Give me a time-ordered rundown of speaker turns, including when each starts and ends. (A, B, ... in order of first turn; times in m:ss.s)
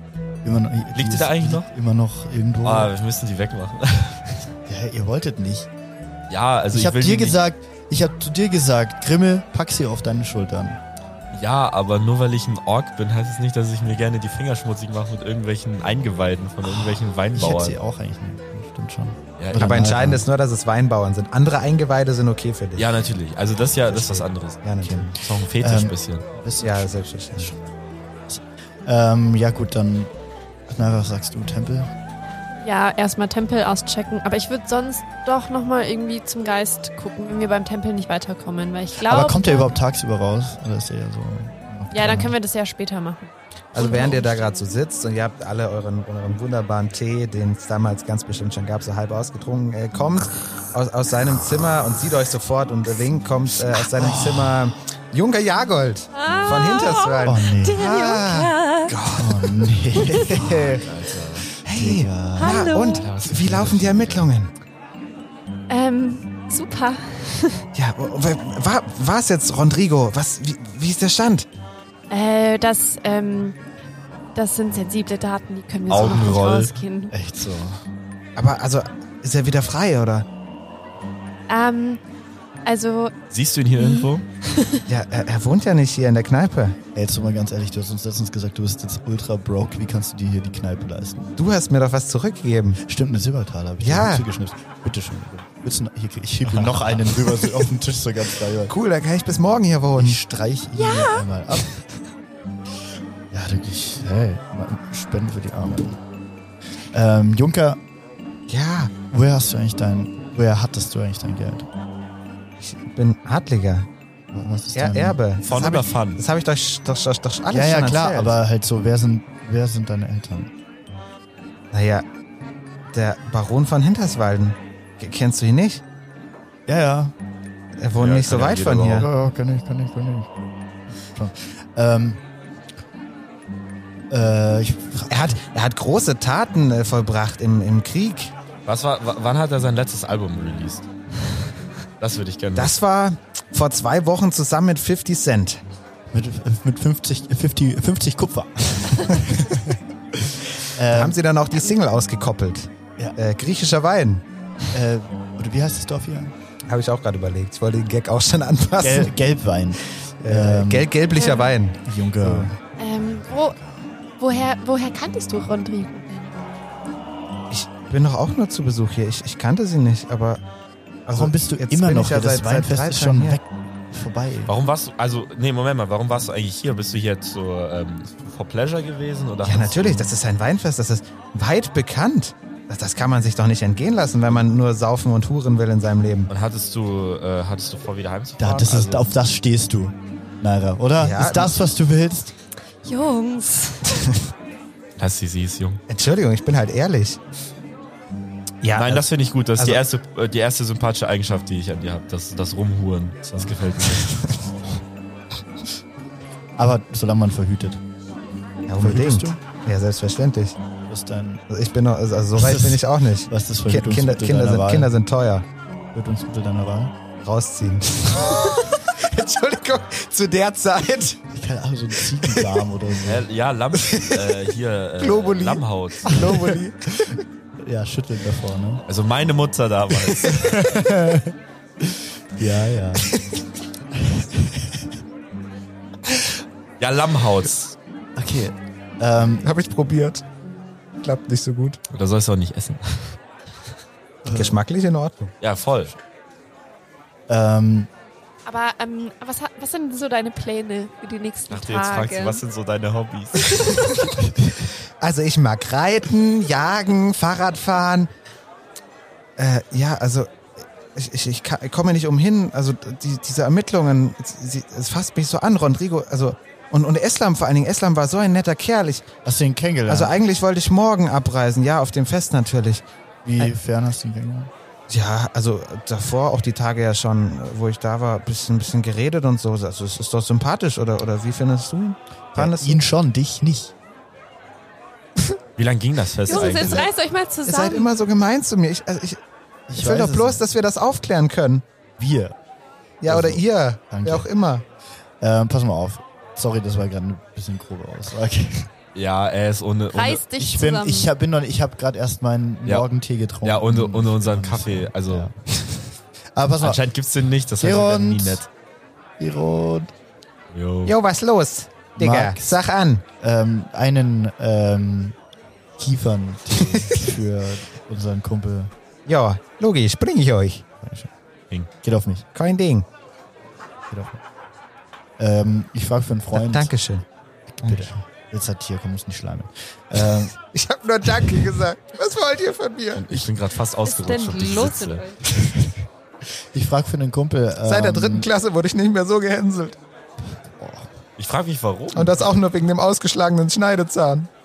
0:00.4-0:02.9 A
0:00.9-0:01.7 B
0:02.6-0:04.4 B
0:04.7-0:05.7 A
0:06.3-0:07.4 B
0:06.7-0:10.8 A
0:11.3-0:17.8 B
0:16.7-0:20.3 A
0:19.4-0:19.9 B
0:19.6-0:22.9 C
0:22.8-0:26.2 B
0:23.9-0:25.1 C
0:24.8-0:27.6 A
0:26.6-0:27.5 C
0:28.3-0:30.1 A
0:30.7-0:31.9 A
0:32.6-0:39.7 D
0:39.0-0:42.4 A
0:41.9-0:44.7 D
0:43.7-0:59.3 C
0:53.9-0:54.7 A
0:56.1-0:59.0 D
0:57.2-0:57.8 A
0:59.1-1:00.9 A
1:00.0-1:00.4 D
1:00.6-1:01.5 B
1:01.6-1:02.8 A
1:01.6-1:04.5 C
1:02.4-1:03.1 D
1:02.8-1:04.3 B
1:05.7-1:07.6 D
1:07.8-1:11.5 C
1:12.1-1:13.6 D
1:14.4-1:17.1 D
1:15.9-1:16.8 B
1:17.1-1:17.8 A
1:18.4-1:20.3 C
1:21.5-1:22.0 D
1:22.6-1:23.1 D
1:23.3-1:24.2 B
1:23.8-1:24.8 D
1:24.9-1:26.8 C
1:27.0-1:31.3 A
1:31.4-1:32.8 C
1:32.8-1:38.7 A
1:33.8-1:34.2 C
1:36.5-1:37.0 B
1:38.7-1:40.2 C
1:40.0-1:41.8 A
1:40.7-1:41.8 D
1:43.3-1:46.0 A
1:46.9-1:47.8 A
1:48.5-1:48.9 C
1:49.1-1:51.7 A
1:52.6-1:53.9 C
1:54.3-1:55.2 A
1:54.8-1:58.4 C
1:55.4-1:56.2 B
1:57.5-2:00.5 A
2:01.7-2:02.0 C
2:02.9-2:05.8 C
2:06.7-2:07.1 A
2:07.8-2:09.1 C
2:08.0-2:09.1 B
2:08.9-2:10.3 A
2:11.0-2:12.2 A
2:14.1-2:15.4 A
2:15.1-2:18.3 C
2:18.7-2:20.9 B
2:22.0-2:22.8 B
2:22.6-2:25.6 C
2:26.1-2:31.2 A
2:30.9-2:34.2 C
2:34.7-2:36.3 A
2:36.7-2:39.1 C
2:38.8-2:40.9 A
2:40.2-2:42.5 C
2:41.2-2:41.5 D
2:41.8-2:42.6 A
2:42.8-2:43.6 D
2:44.2-2:46.5 D
2:47.5-2:50.4 C
2:51.1-2:53.4 C
2:51.1-2:54.5 A
2:54.5-3:00.1 B
2:59.4-3:06.3 C
3:06.3-3:09.0 B
3:08.4-3:12.3 A
3:11.0-3:11.6 C
3:12.8-3:14.0 D
3:15.0-3:15.8 B
3:15.9-3:17.2 C
3:18.6-3:19.0 C
3:18.7-3:24.3 B
3:26.6-3:27.8 A
3:28.7-3:30.6 C
3:28.8-3:29.4 A
3:30.9-3:31.4 A
3:31.5-3:35.4 C
3:32.4-3:34.9 A
3:35.9-3:37.0 A
3:37.2-3:41.2 C
3:41.3-3:43.3 A
3:42.2-3:42.6 C
3:43.0-3:46.2 B
3:43.8-3:44.3 C
3:45.0-3:47.1 C
3:46.1-3:48.8 A
3:48.9-3:50.7 B
3:50.2-3:51.3 A
3:52.4-3:53.1 A
3:54.0-3:54.9 A
3:56.8-3:57.8 B
3:58.2-3:59.5 A
3:59.4-4:00.2 C
4:01.0-4:01.8 C
4:01.9-4:03.2 B
4:04.2-4:04.6 A
4:04.3-4:05.3 C
4:05.4-4:06.0 B
4:07.3-4:07.9 A
4:08.5-4:12.4 D
4:11.5-4:13.6 B
4:15.0-4:18.1 C
4:19.4-4:29.1 C
4:29.2-4:30.2 A
4:29.9-4:32.8 C
4:33.2-4:34.5 A
4:34.9-4:42.8 C
4:42.4-4:43.7 A
4:45.6-4:46.9 B
4:46.3-4:47.9 D
4:46.3-4:46.9 C
4:47.5-4:49.2 C
4:49.7-4:50.4 A
4:49.7-4:51.6 C
4:52.0-4:52.4 A
4:53.0-4:54.6 C
4:53.0-4:54.3 A
4:55.2-4:58.7 A
4:59.0-5:00.2 B
4:59.9-5:01.1 D
5:00.4-5:05.4 A
5:03.4-5:05.3 B
5:06.3-5:06.8 A
5:06.6-5:08.5 B
5:07.6-5:08.4 A
5:09.2-5:09.9 A
5:10.5-5:11.0 B
5:10.9-5:13.0 C
5:12.0-5:12.6 A
5:13.2-5:15.2 A
5:15.8-5:18.7 A
5:16.7-5:17.0 C
5:19.1-5:20.6 C
5:20.8-5:21.1 A
5:21.8-5:22.3 A
5:22.4-5:22.9 C
5:23.9-5:24.2 A
5:25.2-5:26.7 A
5:26.3-5:27.0 C
5:27.6-5:30.3 A
5:27.6-5:27.9 C
5:30.5-5:33.1 C
5:33.0-5:35.1 B
5:33.8-5:35.2 D
5:35.4-5:35.7 A
5:36.5-5:38.3 A
5:37.7-5:39.8 C
5:40.5-5:40.9 A
5:41.2-5:42.3 B
5:41.9-5:44.3 C